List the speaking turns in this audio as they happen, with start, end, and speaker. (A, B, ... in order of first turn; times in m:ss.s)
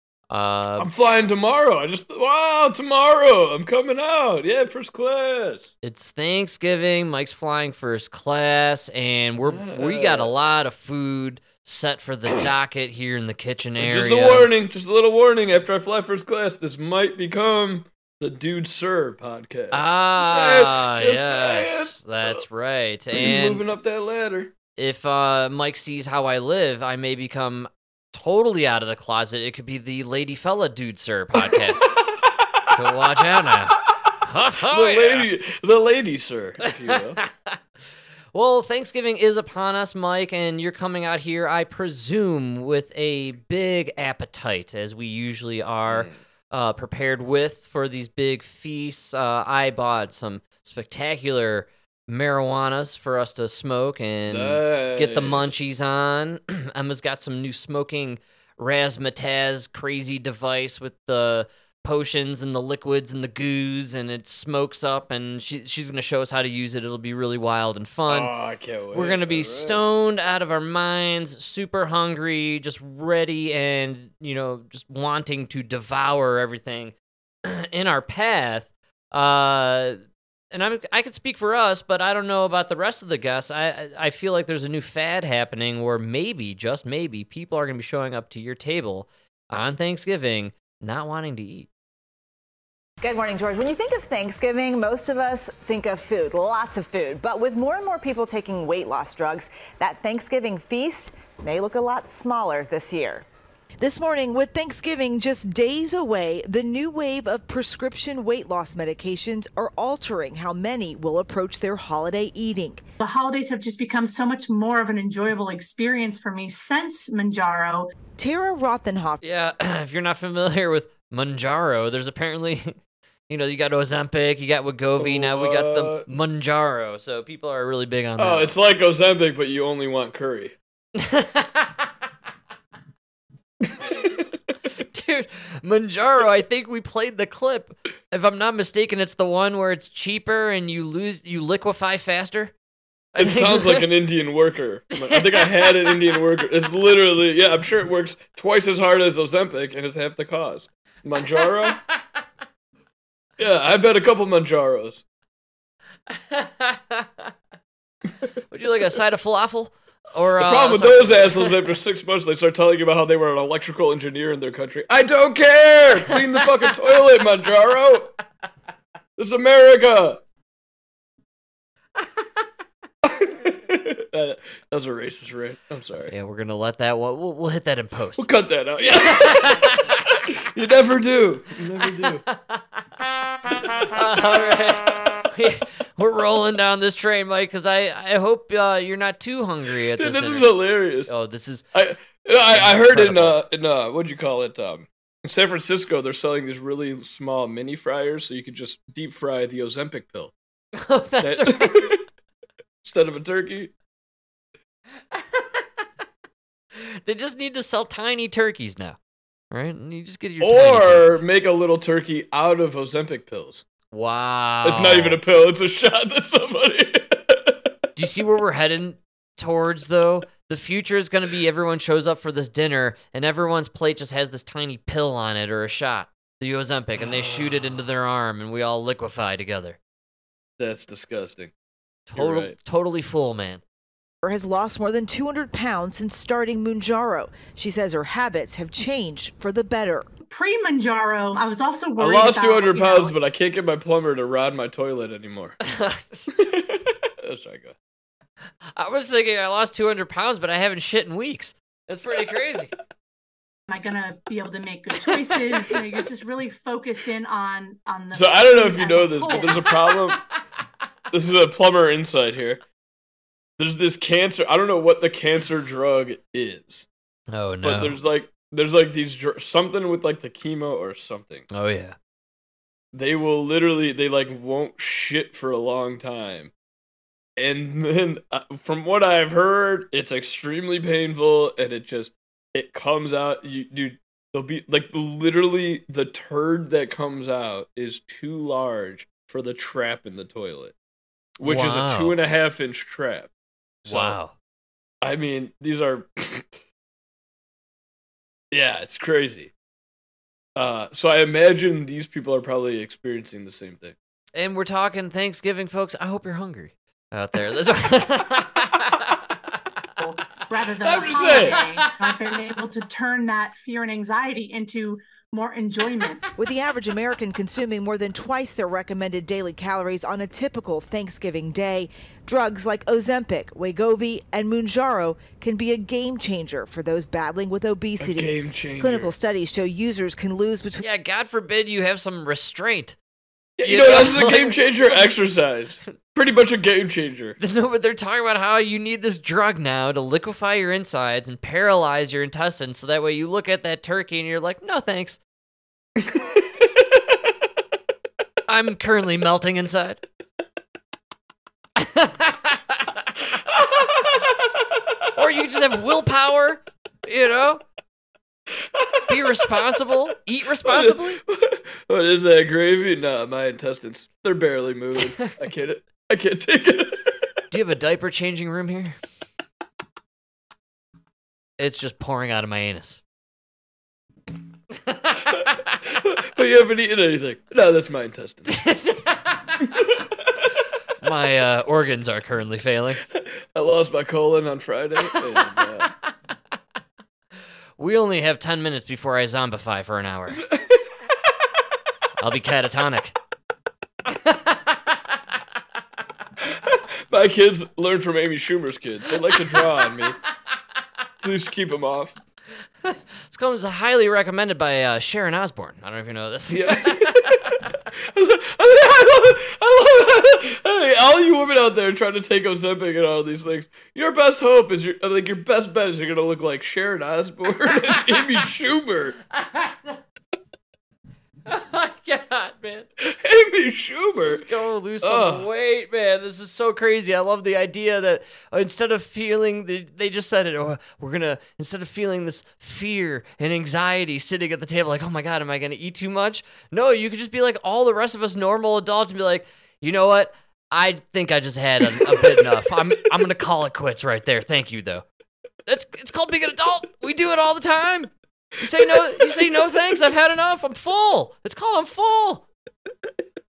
0:00.3-0:00.9 A
0:00.8-0:05.7 B
0:05.8-0:14.5 A
0:09.4-0:10.3 B
0:13.8-0:22.4 B
0:19.7-0:23.6 A
0:23.1-0:24.5 B
0:24.8-0:32.0 A
0:31.4-0:32.0 B
0:32.7-0:35.3 A
0:34.7-0:37.2 B
0:36.9-0:37.6 A
0:38.3-1:08.3 A
0:45.9-0:46.2 B
0:54.3-0:55.5 B
1:08.1-1:09.8 B
1:08.9-1:16.9 A
1:17.4-1:20.0 A
1:20.5-1:31.7 A
1:33.0-1:43.3 C
1:43.8-1:52.8 D
1:53.0-1:57.9 E
1:58.2-1:59.2 D
1:59.2-2:02.8 A
2:03.3-2:08.5 A
2:05.0-2:06.1 B
2:08.2-2:10.5 B
2:10.9-2:11.9 A
2:13.6-2:14.3 B
2:14.9-2:22.5 A
2:23.1-2:23.9 A
2:23.2-2:31.8 B
2:25.0-2:25.4 A
2:33.4-2:35.0 B
2:36.1-2:37.3 A
2:38.5-2:41.5 A
2:40.4-2:48.1 B
2:49.2-2:50.2 B
2:53.0-2:56.1 B
2:56.1-2:58.2 A
2:58.2-3:02.2 B
2:58.9-3:00.2 A
3:02.0-3:02.6 A
3:03.8-3:10.5 A
3:10.0-3:11.1 B
3:11.1-3:11.6 A
3:11.7-3:20.3 B
3:12.5-3:13.4 A
3:20.8-3:21.9 A
3:21.2-3:22.0 B
3:22.8-3:23.7 B
3:25.1-3:25.6 A
3:26.8-3:29.0 A
3:29.5-3:31.2 A
3:30.4-3:33.6 B
3:33.9-3:35.2 A
3:34.6-3:37.6 B
3:37.9-3:49.8 A
3:47.0-3:47.8 B
3:50.6-3:51.5 B
3:52.1-3:53.6 A
3:52.1-3:52.6 B
3:54.2-4:00.1 D
4:00.3-4:03.1 E
4:02.0-4:05.6 B
4:05.6-4:06.3 A
4:06.4-4:07.8 B
4:08.8-4:12.7 A
4:13.7-4:19.8 E
4:18.1-4:20.2 B
4:21.1-4:22.6 B
4:23.6-4:26.9 B
4:27.3-4:28.0 A
4:27.6-4:31.5 B
4:31.5-4:32.0 A
4:32.9-4:36.5 B
4:37.4-4:50.7 B
4:51.4-4:53.3 B
4:51.4-4:52.2 A
4:53.8-4:54.2 B
4:53.8-4:54.3 A
4:55.0-4:56.6 B
4:58.5-4:59.5 B
5:00.6-5:03.9 B
5:04.3-5:09.2 A
5:10.0-5:16.3 E
5:10.8-5:11.6 B
5:16.4-5:30.8 D
5:28.0-5:29.1 B
5:30.8-5:33.0 A
5:33.6-5:37.4 B
5:33.6-5:35.2 A
5:37.4-5:45.2 A
5:46.0-5:47.1 B
5:48.5-5:50.0 A
5:51.8-5:53.1 A
5:53.5-5:54.6 B
5:55.1-5:57.6 A
5:58.6-5:59.5 B
5:59.1-6:01.2 A
6:00.6-6:07.2 B
6:07.5-6:09.0 A
6:11.6-6:13.0 A
6:14.9-6:15.6 A
6:15.9-6:18.6 B
6:18.5-6:19.6 A
6:19.6-6:20.0 B
6:21.0-6:23.1 A
6:23.2-6:25.9 B
6:27.8-6:30.4 A
6:30.3-6:30.9 B
6:32.2-6:33.2 A
6:34.1-6:34.8 A
6:36.4-6:40.2 B
6:41.2-6:42.1 B
6:42.8-6:47.6 A
6:46.5-6:59.2 B
6:57.8-6:58.2 A
6:59.3-7:00.0 A
7:01.4-7:02.9 A
7:03.0-7:04.4 B
7:04.2-7:25.0 A
7:05.0-7:05.5 B
7:21.9-7:22.6 B
7:25.6-7:32.4 A
7:28.8-7:29.7 B